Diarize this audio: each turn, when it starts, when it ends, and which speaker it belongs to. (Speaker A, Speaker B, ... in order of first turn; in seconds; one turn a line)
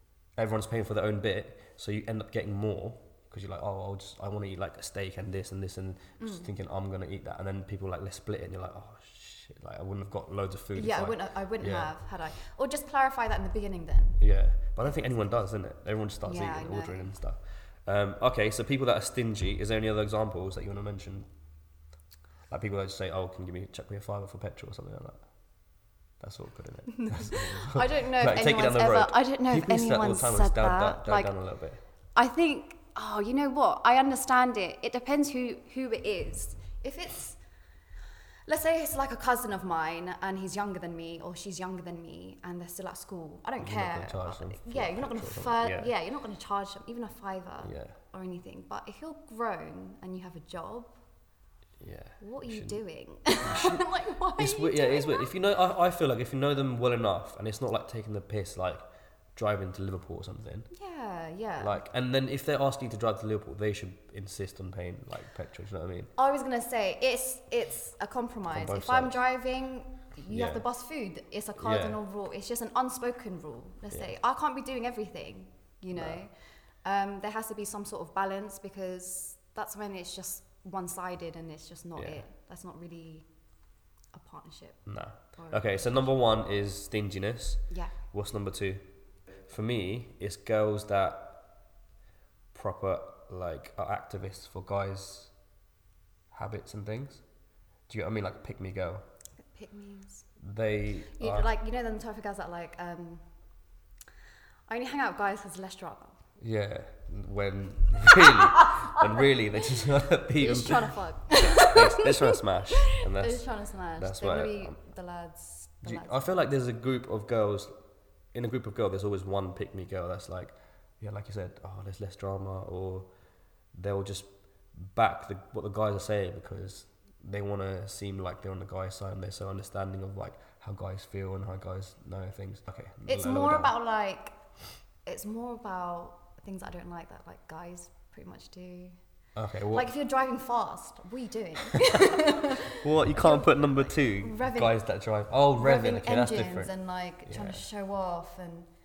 Speaker A: 0.4-11.9
Speaker B: 6.2-6.5
Speaker B: 10.8-14.2
Speaker A: 14.2-21.3
Speaker B: 14.8-15.1
Speaker B: 16.2-17.0
Speaker A: 22.5-25.2
Speaker A: 26.2-31.8
Speaker B: 27.0-31.3
Speaker B: 32.1-37.4
Speaker B: 38.5-50.9
Speaker A: 43.6-45.9
Speaker A: 47.6-48.0
Speaker A: 51.8-52.8
Speaker B: 52.2-55.3
Speaker A: 53.4-53.8
Speaker A: 54.4-58.8
Speaker A: 59.3-60.7
Speaker B: 60.7-61.8
Speaker A: 61.6-66.1
Speaker B: 66.2-76.3
Speaker A: 68.5-69.1
Speaker A: 70.3-70.6
Speaker A: 71.6-72.0
Speaker A: 75.9-76.2
Speaker B: 76.8-83.2
Speaker A: 82.0-82.2
Speaker B: 84.1-86.0
Speaker A: 84.8-88.9
Speaker A: 89.5-91.4
Speaker A: 92.5-95.3
Speaker A: 96.3-97.2
Speaker A: 97.9-99.0
Speaker B: 99.5-100.2
Speaker A: 100.4-101.5
Speaker B: 101.2-103.2
Speaker B: 104.7-106.2
Speaker A: 106.4-114.8
Speaker B: 110.4-112.4
Speaker B: 112.9-116.2
Speaker A: 115.8-117.7
Speaker A: 118.3-123.1
Speaker A: 123.7-133.7
Speaker B: 133.1-134.3
Speaker B: 135.0-139.0
Speaker A: 139.3-139.9
Speaker B: 139.7-144.8
Speaker A: 142.7-146.7
Speaker B: 145.6-148.7
Speaker A: 147.2-147.6